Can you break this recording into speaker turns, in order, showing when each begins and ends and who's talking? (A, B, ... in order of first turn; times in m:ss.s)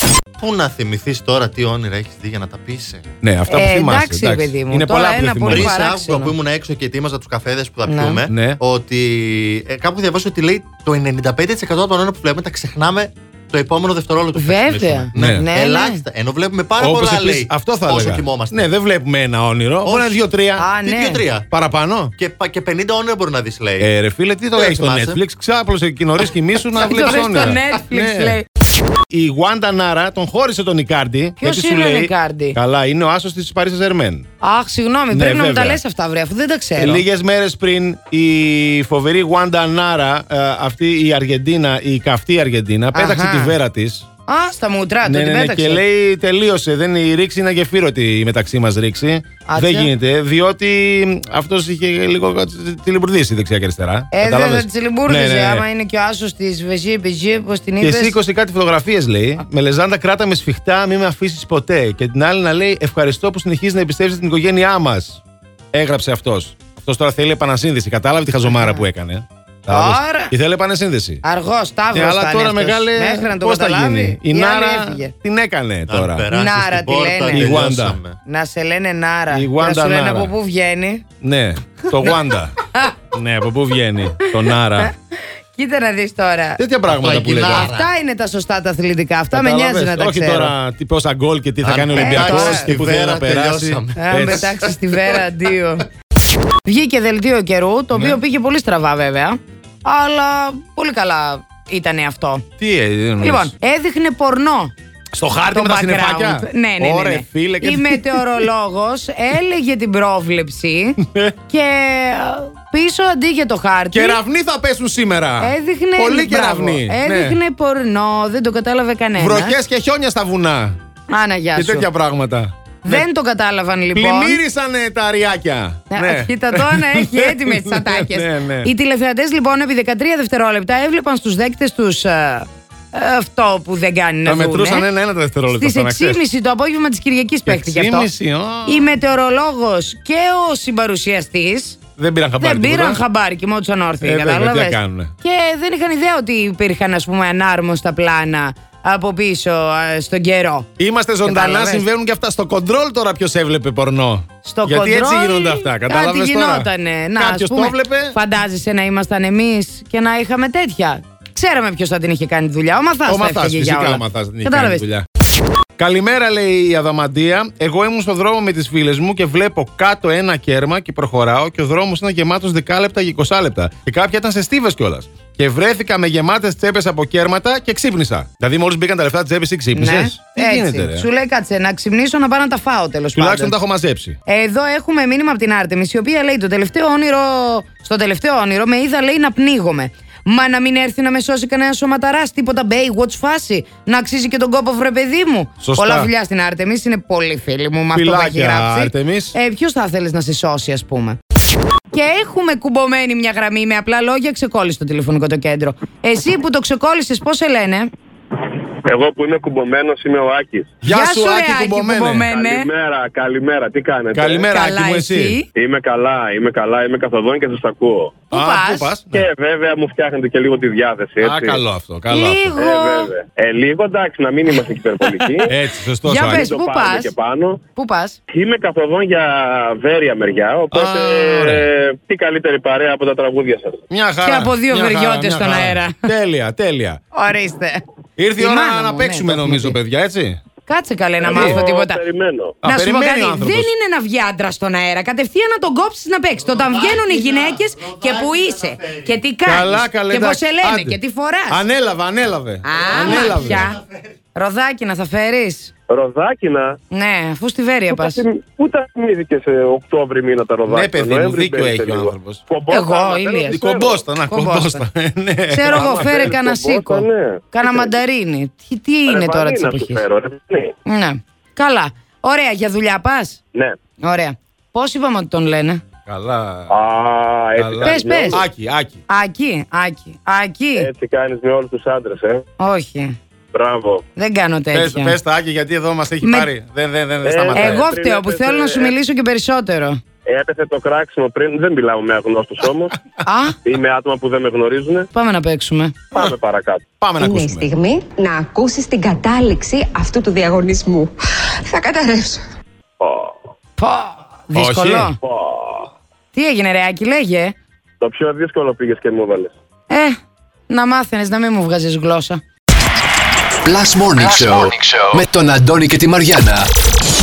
0:00.4-0:03.0 A
0:03.2-0:05.8 B
0:03.5-0:06.4 C
0:05.5-0:18.7 A
0:07.9-0:08.2 C
0:08.3-0:08.6 B
0:14.4-0:16.0 C
0:15.2-0:15.5 B
0:16.8-0:20.7 B
0:19.8-0:20.2 A
0:20.6-0:21.2 C
0:20.8-0:21.5 A
0:21.5-0:22.1 B
0:22.2-0:23.9 A
0:23.8-0:28.4 B
0:24.6-0:25.2 A
0:26.8-0:28.5 C
0:29.1-0:34.3 B
0:31.4-0:32.6 C
0:34.4-0:37.0 C
0:35.1-0:35.8 B
0:36.8-0:44.1 B
0:42.9-0:43.6 C
0:44.3-0:45.8 C
0:45.0-0:55.7 B
0:49.5-0:49.9 C
0:54.1-0:58.2 C
0:57.8-1:05.2 B
1:05.7-1:11.2 B
1:08.4-1:08.8 C
1:09.7-1:10.3 C
1:11.2-1:15.1 C
1:11.9-1:16.3 B
1:15.9-1:18.2 A
1:16.3-1:17.6 C
1:17.3-1:18.0 B
1:18.2-1:21.0 C
1:19.3-1:20.3 B
1:21.2-1:22.6 B
1:23.1-1:24.9 B
1:25.5-1:26.6 C
1:26.6-1:27.7 B
1:26.9-1:27.9 A
1:27.5-1:30.6 C
1:29.3-1:34.5 B
1:31.6-1:34.5 A
1:31.9-1:32.7 C
1:34.0-1:35.8 C
1:36.6-1:42.4 C
1:42.6-1:43.5 B
1:43.2-1:44.7 C
1:45.1-1:48.5 B
1:45.5-1:54.2 C
1:51.0-1:51.4 B
1:53.9-1:57.4 B
1:55.4-1:59.6 C
1:59.2-2:00.8 B
2:01.1-2:01.9 C
2:01.6-2:03.1 B
2:02.8-2:04.4 C
2:03.9-2:08.7 B
2:05.9-2:14.9 C
2:14.3-2:16.2 B
2:15.5-2:18.1 C
2:17.5-2:18.9 B
2:18.7-2:21.8 C
2:22.0-2:23.0 B
2:22.4-2:30.7 C
2:24.0-2:25.1 B
2:30.8-2:38.2 B
2:31.2-2:31.9 C
2:34.4-2:44.9 C
2:43.1-2:45.0 B
2:45.8-3:01.1 B
2:59.8-3:03.6 C
3:03.2-3:04.2 B
3:04.3-3:21.2 C
3:15.6-3:16.1 B
3:17.9-3:19.4 B
3:21.9-3:27.9 C
3:28.8-3:30.7 D
3:30.8-3:32.3 B
3:30.9-3:32.7 C
3:32.3-3:34.5 D
3:34.1-3:35.4 B
3:34.5-3:35.5 C
3:35.6-3:38.2 D
3:38.3-3:38.9 C
3:38.3-3:39.3 B
3:39.1-3:41.6 D
3:41.2-3:42.5 B
3:42.1-3:43.1 C
3:42.6-3:45.5 D
3:45.5-3:46.5 B
3:46.0-3:47.1 C
3:46.2-3:47.6 D
3:47.8-3:48.2 C
3:48.3-3:53.8 D
3:50.7-3:51.7 B
3:53.9-3:57.0 B
3:54.2-3:56.1 C
3:57.1-3:57.8 C
3:58.2-4:00.4 B
3:58.4-3:59.8 C
4:00.7-4:02.0 C
4:01.2-4:02.6 D
4:01.3-4:01.6 B
4:02.6-4:03.7 B
4:02.6-4:11.6 C
4:06.4-4:09.2 A
4:09.4-4:11.0 B
4:11.5-4:13.7 B
4:12.6-4:13.8 C
4:12.9-4:14.0 A
4:14.3-4:15.7 C
4:15.9-4:16.8 D
4:16.9-4:18.2 C
4:17.9-4:24.0 D
4:20.7-4:22.4 B
4:22.7-4:23.6 C
4:23.5-4:26.3 B
4:24.2-4:24.8 C
4:25.5-4:30.0 C
4:25.7-4:28.0 D
4:29.1-4:30.7 D
4:30.9-4:33.4 C
4:34.0-4:35.8 C
4:36.1-4:36.7 B
4:36.7-4:38.4 D
4:37.6-4:39.0 B
4:37.8-4:38.4 C
4:39.1-4:40.9 C
4:40.8-4:42.4 D
4:42.6-4:43.2 C
4:43.5-4:44.0 D
4:44.2-4:45.2 C
4:44.7-4:47.9 B
4:46.2-4:46.5 C
4:47.2-4:48.9 D
4:47.5-4:50.0 C
4:50.3-4:53.0 D
4:53.2-4:53.6 C
4:53.6-4:55.1 D
4:55.1-4:56.0 C
4:56.1-4:56.8 D
4:57.0-4:57.7 B
4:57.2-5:01.1 E
5:01.6-5:02.4 E
5:03.0-5:03.3 D
5:03.8-5:05.2 C
5:04.5-5:05.1 B
5:05.2-5:05.9 D
5:06.3-5:07.6 C
5:08.0-5:09.5 D
5:09.9-5:10.2 C
5:10.7-5:12.4 C
5:13.6-5:16.7 F